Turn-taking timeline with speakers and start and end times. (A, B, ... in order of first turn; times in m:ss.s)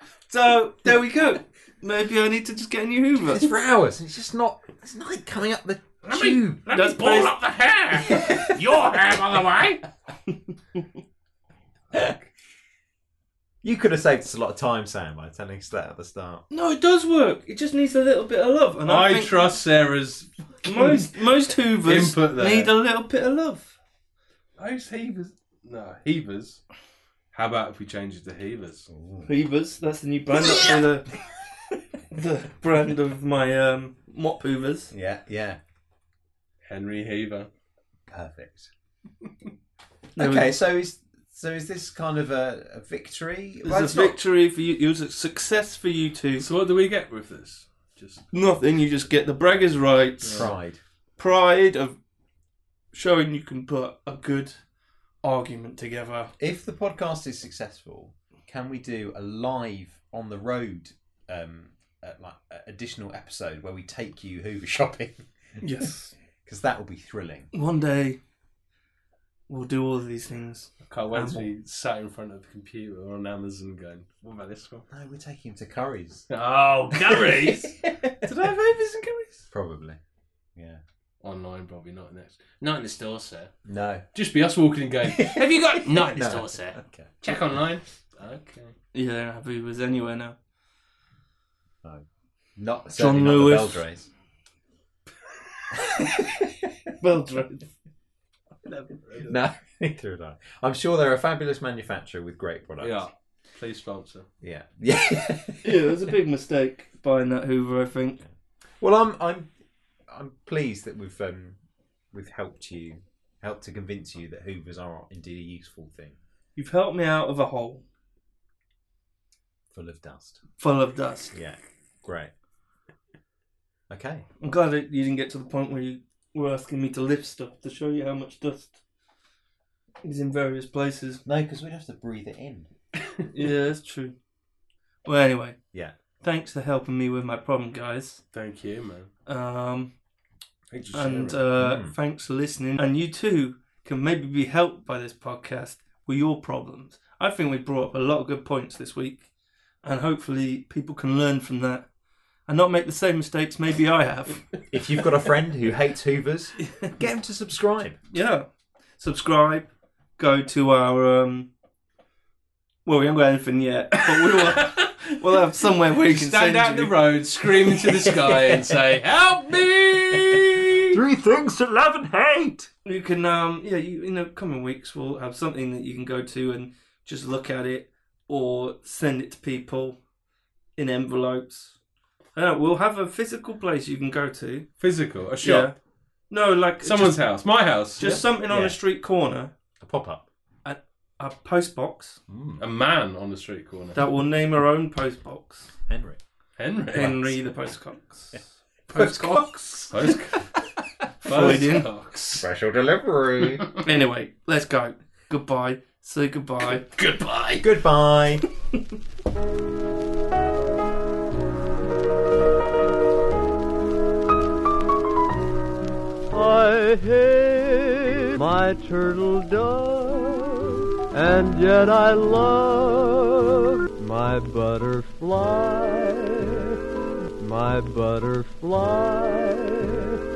0:00.3-0:03.5 A
0:03.3-0:06.6 B
0:06.0-0:09.8 C
0:06.7-0:07.4 A
0:08.0-0:08.9 B
0:13.6-0:16.4 B
0:16.5-0:19.5 A
0:18.8-0:21.2 C
0:20.6-0:23.7 A
0:21.8-0:22.7 C
0:24.6-0:26.6 C
0:27.3-0:28.9 C
0:28.9-0:29.3 B
0:29.2-0:31.1 A
0:32.1-0:34.9 A
0:34.9-0:35.6 B
0:36.6-0:37.5 C
0:38.1-0:38.7 B
0:40.2-0:40.6 A
0:40.2-0:44.2 B
0:43.6-0:46.5 A
0:46.4-0:48.2 C
0:48.3-0:50.5 A
0:50.2-0:50.5 C
0:50.3-0:50.8 B
0:51.2-0:52.0 A
0:52.9-0:54.6 A
0:55.2-0:56.3 A
0:56.4-1:05.6 B
1:05.6-1:06.1 A
1:06.4-1:07.5 B
1:07.5-1:08.2 A
1:09.5-1:11.5 A
1:10.8-1:14.9 C
1:14.9-1:16.3 B
1:16.3-1:19.4 C
1:17.1-1:18.1 B
1:19.5-1:20.0 B
1:20.6-1:20.8 B
1:21.2-1:23.5 C
1:23.6-1:24.0 B
1:24.1-1:28.7 C
1:25.1-1:27.4 B
1:28.9-1:30.4 A
1:32.6-1:34.1 B
1:33.0-1:33.8 A
1:35.9-1:36.7 B
1:37.0-1:37.7 A
1:38.6-1:39.0 A
1:39.2-1:43.0 B
1:42.8-1:44.2 C
1:44.4-1:46.1 B
1:45.6-1:48.2 A
1:48.8-1:49.5 B
1:50.1-1:51.6 B
1:52.1-1:56.2 B
1:56.6-1:57.8 A
1:59.7-2:00.4 B
2:00.6-2:01.3 A
2:01.3-2:02.3 B
2:03.9-2:04.3 B
2:04.4-2:08.8 A
2:10.0-2:11.2 A
2:11.2-2:12.7 B
2:13.3-2:14.1 A
2:15.0-2:15.6 A
2:16.2-2:18.2 A
2:18.3-2:19.1 C
2:19.3-2:19.9 A
2:20.7-2:21.4 C
2:20.9-2:29.3 A
2:21.6-2:21.9 B
2:29.8-2:31.9 A
2:32.5-2:34.5 A
2:34.7-2:38.0 B
2:38.1-2:38.5 A
2:39.0-2:41.5 A
2:42.8-2:46.9 A
2:44.1-2:45.0 C
2:45.9-2:51.0 C
2:47.8-2:48.6 B
2:50.1-2:52.7 B
2:52.8-3:00.0 A
3:00.8-3:01.8 A
3:02.3-3:04.7 A
3:04.8-3:05.7 C
3:05.4-3:05.7 A
3:06.3-3:07.2 A
3:06.8-3:08.2 C
3:08.0-3:09.5 A
3:08.0-3:08.8 B
3:09.8-3:10.3 B
3:10.6-3:12.2 A
3:12.3-3:12.6 B
3:12.6-3:14.1 C
3:13.9-3:15.7 A
3:15.9-3:16.2 B
3:16.6-3:17.4 C
3:16.9-3:18.4 A
3:18.9-3:20.5 C
3:18.9-3:19.5 B
3:19.0-3:19.8 A
3:21.2-3:22.4 C
3:21.2-3:21.9 A
3:22.3-3:23.7 B
3:23.8-3:26.9 A
3:27.0-3:27.7 C
3:27.6-3:28.4 B
3:36.3-3:46.8 D
3:47.4-3:50.2 D